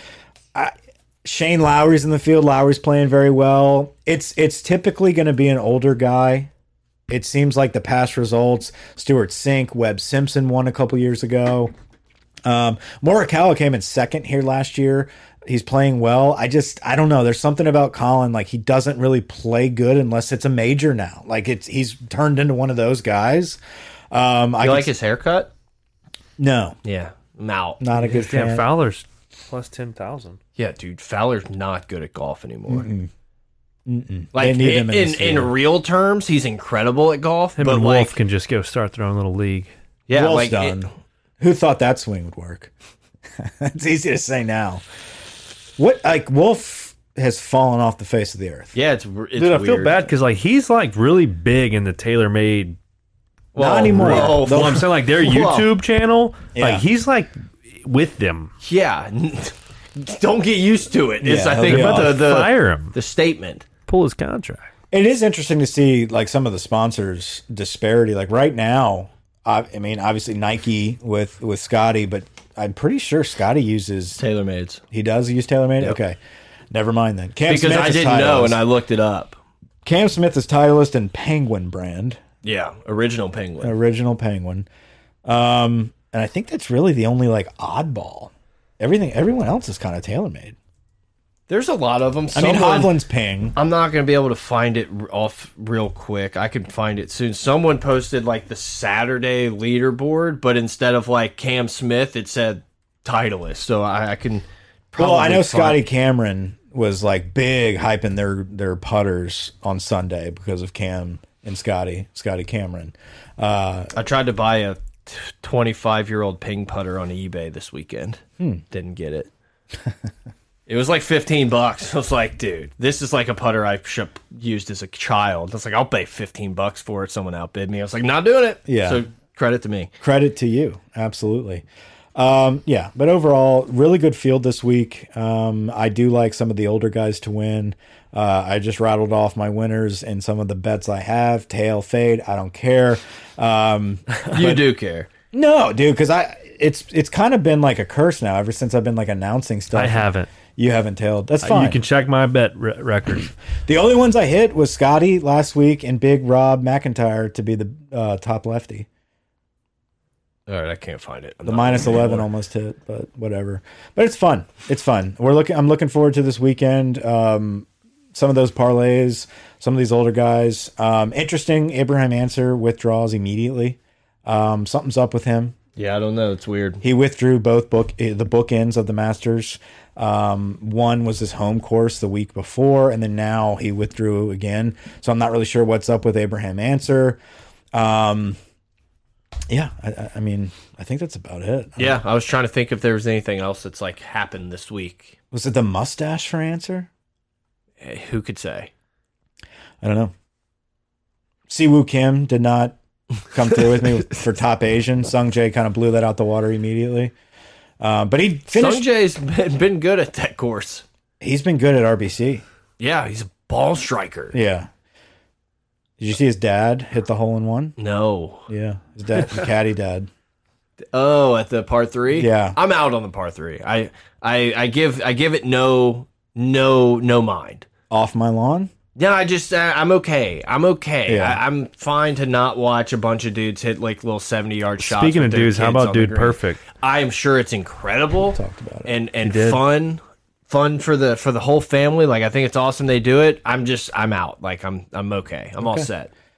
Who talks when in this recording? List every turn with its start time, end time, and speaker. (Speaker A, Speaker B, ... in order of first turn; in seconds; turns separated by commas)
Speaker A: 0.5-6.5, Speaker A: 7.1-11.7, Speaker A: 12.4-23.6, Speaker A: 24.1-24.9, Speaker B: 24.6-25.5, Speaker A: 26.4-26.8, Speaker B: 26.8-27.8, Speaker A: 27.8-28.6, Speaker C: 28.0-30.4, Speaker B: 30.6-32.9, Speaker A: 32.7-33.1, Speaker A: 33.9-35.5, Speaker B: 34.3-38.1, Speaker C: 37.6-39.7, Speaker B: 40.1-40.9, Speaker A: 40.1-40.9, Speaker A: 41.4-42.7, Speaker A: 43.4-44.8, Speaker A: 45.8-48.7, Speaker B: 48.7-50.1, Speaker C: 49.4-52.8, Speaker B: 53.5-55.7, Speaker A: 53.6-54.8, Speaker C: 53.9-58.5, Speaker A: 56.5-56.8, Speaker B: 58.6-63.6, Speaker A: 61.2-62.2, Speaker C: 61.6-63.0, Speaker C: 63.9-64.7, Speaker A: 64.9-74.2, Speaker B: 74.2-74.8, Speaker A: 74.9-76.2, Speaker A: 76.7-78.6, Speaker B: 77.5-79.4, Speaker A: 79.8-82.2, Speaker B: 82.4-83.7, Speaker A: 83.6-84.7, Speaker A: 85.2-90.5, Speaker B: 91.5-92.9, Speaker A: 92.3-93.5, Speaker B: 93.5-105.8, Speaker A: 105.0-113.9, Speaker B: 113.9-119.3, Speaker B: 120.7-129.9, Speaker A: 128.7-129.0, Speaker A: 130.0-131.6, Speaker A: 132.1-144.6, Speaker B: 144.2-145.1, Speaker A: 145.3-151.8, Speaker C: 149.7-150.3, Speaker C: 151.4-153.3, Speaker A: 153.7-158.9, Speaker B: 160.5-162.3, Speaker A: 161.4-175.5, Speaker B: 175.8-176.8, Speaker A: 176.8-187.2, Speaker A: 187.7-188.4, Speaker A: 189.5-192.0, Speaker B: 191.8-195.2, Speaker A: 195.3-196.9, Speaker B: 197.8-198.7, Speaker A: 199.8-200.1, Speaker A: 201.5-202.8, Speaker A: 203.3-207.1, Speaker A: 207.8-208.9, Speaker B: 208.5-210.8, Speaker A: 211.2-212.4, Speaker B: 212.8-214.4, Speaker A: 214.3-214.7, Speaker A: 216.0-217.8, Speaker B: 217.8-218.5, Speaker A: 218.5-220.1, Speaker B: 220.9-227.7, Speaker A: 222.1-222.6, Speaker A: 227.9-228.7, Speaker B: 228.9-246.1, Speaker A: 231.1-231.4, Speaker C: 234.8-236.6, Speaker A: 238.3-238.9, Speaker C: 239.2-239.6, Speaker A: 245.6-245.9